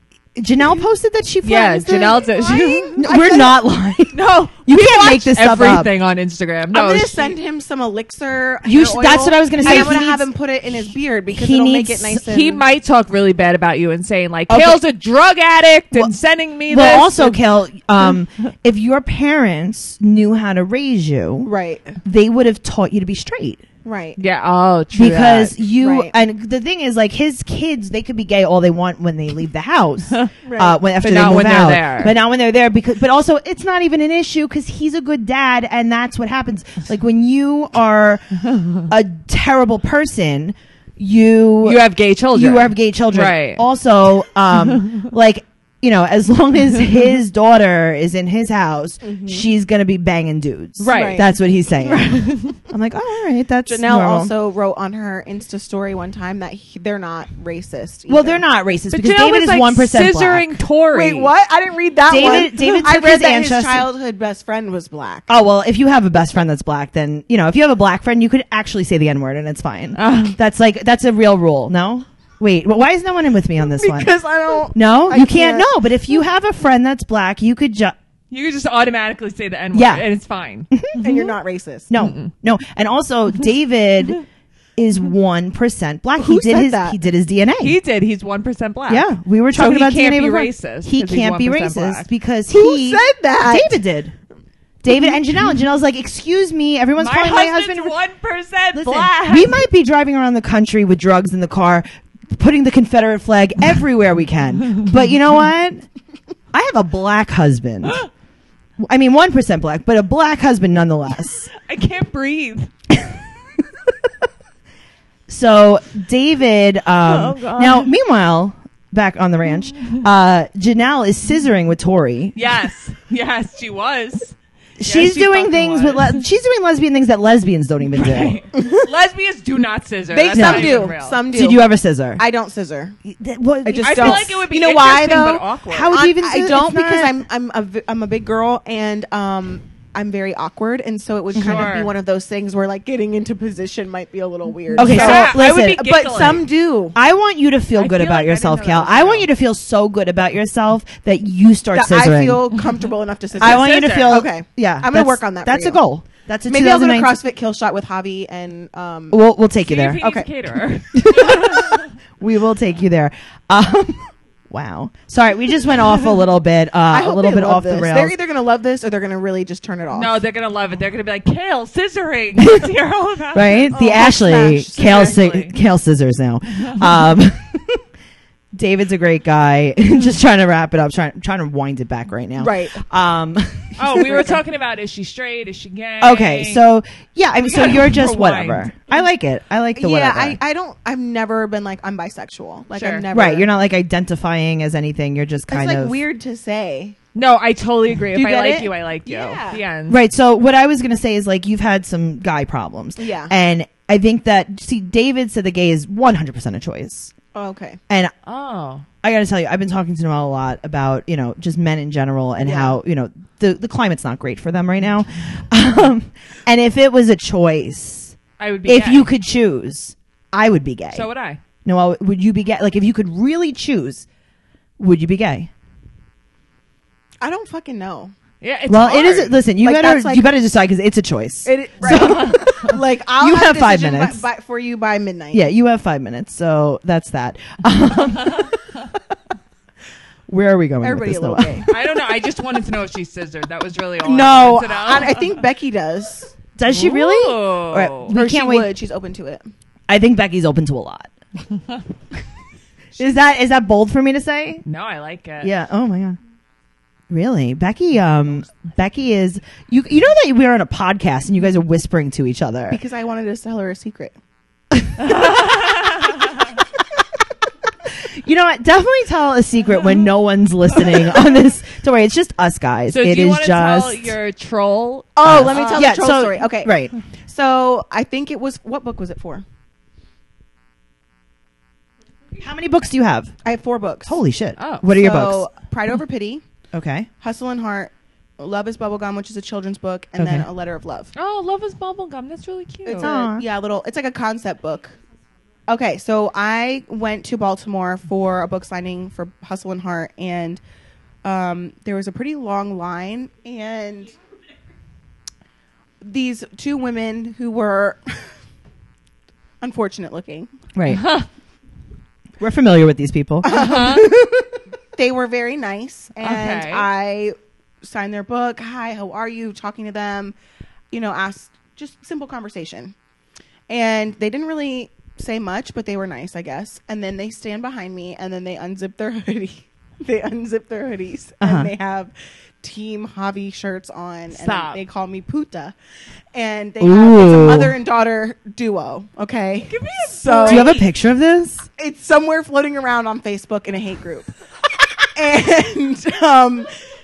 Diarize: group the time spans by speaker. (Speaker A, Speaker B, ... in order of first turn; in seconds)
Speaker A: 0.4-2.3, 3.0-5.9, 8.7-10.3, 11.3-12.2, 14.5-14.8, 16.7-21.5, 22.0-23.6, 24.9-41.8, 42.3-54.3, 58.1-60.5, 62.1-63.9, 65.3-74.1, 74.7-78.0, 79.7-80.0, 80.7-81.3, 81.9-84.2, 84.8-87.8, 88.9-94.1, 94.8-97.9, 98.7-105.8, 106.5-108.0, 108.8-111.5, 115.3-122.4, 124.8-128.4, 130.3-132.2, 133.0-134.3, 135.7-137.2, 141.4-141.7, 144.8-145.9, 146.9-152.5, 153.4-157.2, 159.1-160.0, 160.9-168.1, 172.4-172.7, 173.3-177.8, 178.5-184.4, 186.0-190.4, 193.1-196.0, 199.9-207.1, 209.0-221.1, 221.7-224.1, 224.8-225.5, 228.7-234.2, 235.3-238.6, 240.3-241.7, 246.6-248.7, 249.9-251.1, 253.0-254.6, 255.4-256.2, 257.1-262.8, 268.0-274.1, 275.2-277.0, 282.4-283.3, 284.1-285.5, 286.7-287.1, 290.2-290.5, 293.0-293.5, 310.8-311.1, 312.4-313.8, 331.4-331.7, 336.8-337.7, 340.4-341.7
Speaker B: 1.4-3.1, 4.7-7.3, 9.6-9.9, 12.2-17.4, 24.2-25.6, 31.0-32.1, 41.6-43.6, 50.8-51.2, 52.0-52.6, 58.9-61.3, 70.0-70.4, 78.3-80.7, 87.6-92.1, 97.0-99.6, 111.5-112.7, 117.0-117.9, 122.4-126.2, 127.9-131.2, 133.8-136.0, 141.3-141.9, 144.7-146.5, 147.8-149.3, 153.4-154.2, 159.6-161.9, 169.9-173.7, 174.8-175.5, 183.8-186.6, 187.4-188.7, 192.7-193.1, 197.1-200.0, 208.2-208.9, 218.4-219.1, 220.9-221.4, 228.4-229.4, 241.7-245.3, 246.7-248.1, 254.7-255.5, 265.0-266.3, 272.9-276.1, 284.6-284.9, 291.1-293.1, 310.9-311.3, 313.5-314.1, 316.2-316.9, 334.3-334.8, 339.7-340.9
Speaker C: 1.9-3.6, 4.1-5.3, 6.7-12.6, 21.4-22.0, 23.8-24.2, 25.8-26.1, 30.4-30.8, 49.0-49.5, 50.9-51.3, 51.8-52.2, 53.7-58.4, 60.9-65.3, 73.6-75.7, 81.0-81.9, 86.2-87.0, 92.5-93.8, 128.6-128.9, 130.1-131.6, 132.2-133.0, 133.6-147.0, 151.7-155.8, 156.5-159.2, 160.0-160.3, 166.9-170.2, 173.7-175.3, 182.4-182.8, 189.8-193.5, 195.5-197.0, 198.1-199.6, 203.0-203.3, 207.3-207.8, 212.4-212.8, 227.2-228.1, 229.6-230.3, 231.4-235.4, 240.8-241.7, 244.0-246.3, 248.1-249.5, 262.7-264.2, 275.2-279.4, 283.4-284.2, 284.9-286.4, 287.2-291.1, 292.9-295.0, 295.7-300.6, 301.2-304.2, 306.0-308.3, 309.6-310.5, 313.4-320.4, 320.9-322.9, 323.7-335.8, 336.3-340.8, 341.8-344.3, 345.0-346.7